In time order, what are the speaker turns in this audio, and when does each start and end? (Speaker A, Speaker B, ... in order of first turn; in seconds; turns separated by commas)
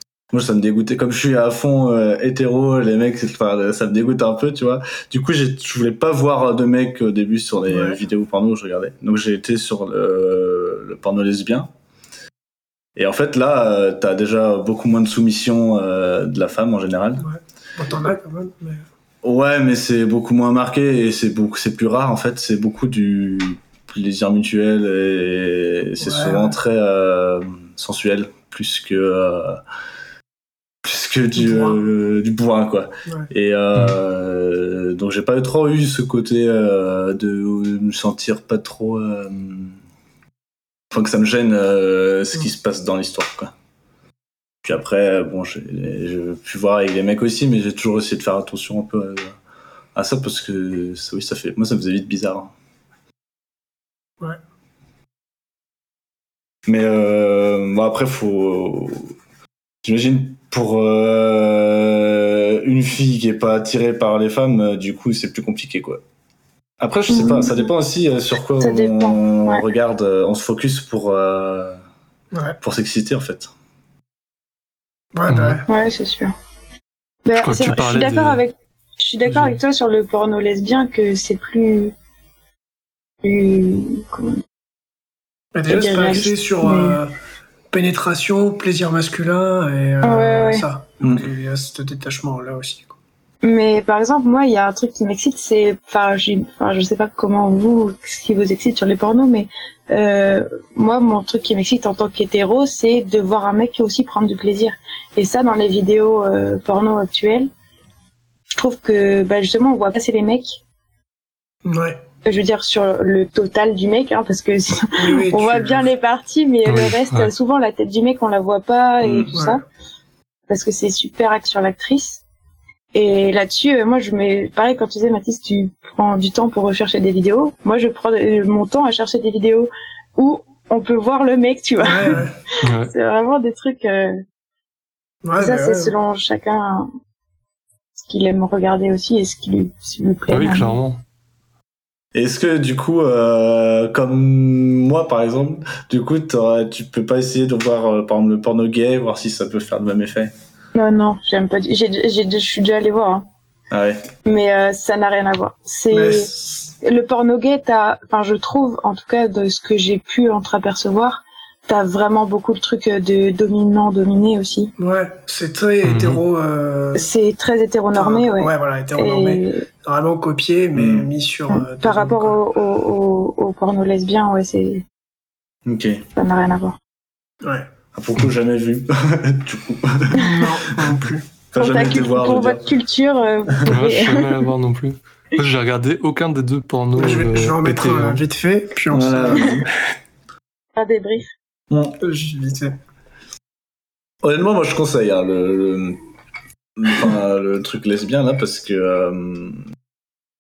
Speaker A: 0.3-11.7, Speaker B: 7.7-8.0, Speaker A: 13.0-17.3, Speaker B: 17.2-18.8, Speaker A: 19.2-29.6, Speaker B: 26.0-26.6, Speaker A: 30.8-39.8, Speaker B: 31.4-31.8, Speaker A: 40.9-43.5, Speaker A: 44.6-49.4, Speaker A: 50.0-52.5, Speaker A: 56.7-59.1, Speaker A: 59.8-66.0, Speaker A: 66.8-71.8, Speaker C: 67.1-67.7, Speaker C: 68.6-69.6, Speaker B: 72.3-72.6, Speaker A: 72.6-73.5, Speaker B: 75.1-75.7, Speaker D: 75.3-75.6, Speaker C: 75.7-76.3, Speaker C: 77.2-81.9, Speaker D: 77.4-78.4, Speaker D: 79.3-79.6, Speaker C: 83.2-84.4, Speaker B: 85.5-87.1, Speaker C: 85.7-87.0, Speaker B: 87.7-93.0, Speaker C: 90.0-90.7, Speaker A: 91.0-91.3, Speaker C: 93.4-107.5, Speaker C: 108.5-110.6, Speaker B: 111.7-112.0, Speaker C: 112.2-119.6, Speaker B: 115.0-115.9, Speaker D: 116.7-117.3, Speaker A: 119.0-119.3, Speaker B: 119.3-119.6, Speaker C: 120.5-122.2, Speaker C: 122.9-132.2, Speaker B: 131.8-132.3, Speaker D: 132.6-132.9, Speaker C: 132.8-134.2, Speaker B: 135.2-135.9, Speaker C: 135.4-136.9, Speaker C: 138.0-140.8, Speaker D: 140.3-141.0, Speaker A: 142.1-150.3, Speaker C: 150.8-153.3, Speaker A: 153.7-154.1, Speaker C: 154.3-156.3, Speaker B: 155.9-156.7, Speaker C: 156.8-164.7, Speaker B: 164.8-167.1, Speaker D: 165.8-166.2, Speaker C: 166.9-169.7, Speaker B: 167.9-172.4, Speaker A: 170.8-171.1, Speaker C: 171.5-174.8, Speaker A: 175.7-176.1, Speaker C: 176.2-176.8, Speaker B: 177.4-177.7, Speaker A: 177.9-180.9, Speaker B: 180.1-181.3, Speaker A: 181.5-182.7, Speaker C: 181.6-184.5, Speaker D: 183.7-188.2, Speaker B: 186.9-189.7, Speaker A: 188.9-189.7, Speaker C: 190.8-191.3, Speaker A: 191.7-192.0, Speaker B: 192.0-192.8, Speaker A: 194.2-196.0, Speaker A: 196.8-199.6